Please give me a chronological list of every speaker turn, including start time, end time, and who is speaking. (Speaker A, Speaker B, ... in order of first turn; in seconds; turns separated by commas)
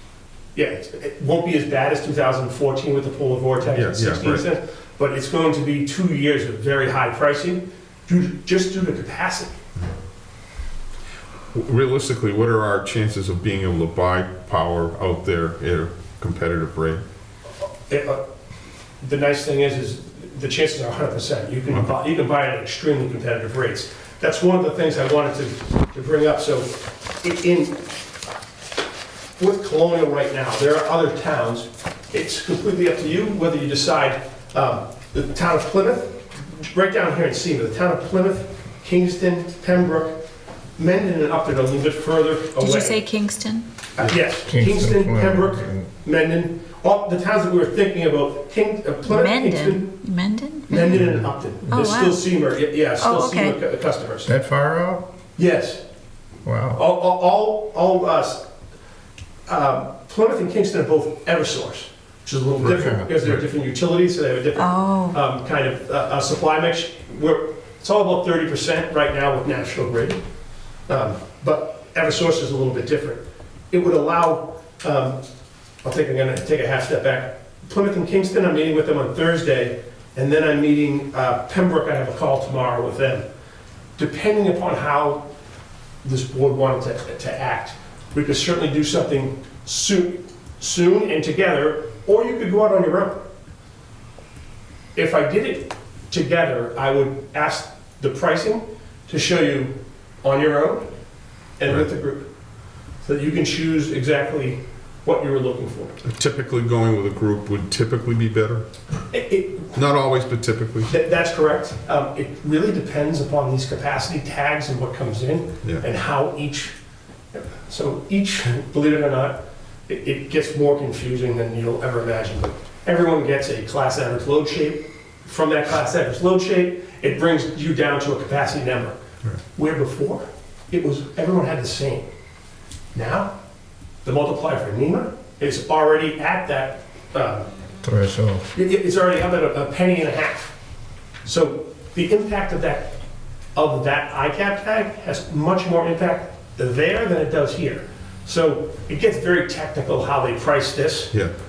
Speaker A: 0.6-9.6, Speaker B: 3.7-4.5, Speaker B: 11.5-17.0, Speaker A: 17.9-18.2, Speaker A: 19.0-27.8, Speaker A: 29.4-40.2, Speaker A: 40.8-43.0, Speaker C: 42.6-43.7, Speaker A: 44.0-49.9, Speaker D: 44.5-45.9, Speaker C: 49.1-52.2, Speaker A: 50.7-54.3, Speaker C: 53.0-53.6, Speaker D: 54.3-55.0, Speaker A: 55.4-55.8, Speaker D: 56.5-56.8, Speaker A: 56.8-58.5, Speaker A: 59.5-70.2, Speaker D: 62.6-63.2, Speaker C: 64.6-65.2, Speaker A: 70.9-75.2, Speaker A: 75.8-83.2, Speaker A: 84.0-85.2, Speaker A: 86.0-93.2, Speaker A: 95.0-100.9, Speaker A: 101.6-102.3, Speaker A: 103.0-106.0, Speaker B: 106.0-108.7, Speaker A: 109.1-109.7, Speaker B: 109.7-110.9, Speaker A: 110.9-116.8, Speaker A: 117.3-129.0, Speaker A: 129.6-132.1, Speaker A: 132.9-133.3, Speaker A: 134.1-137.5, Speaker D: 137.8-138.5, Speaker A: 138.5-140.6, Speaker A: 141.2-143.0, Speaker A: 143.6-151.1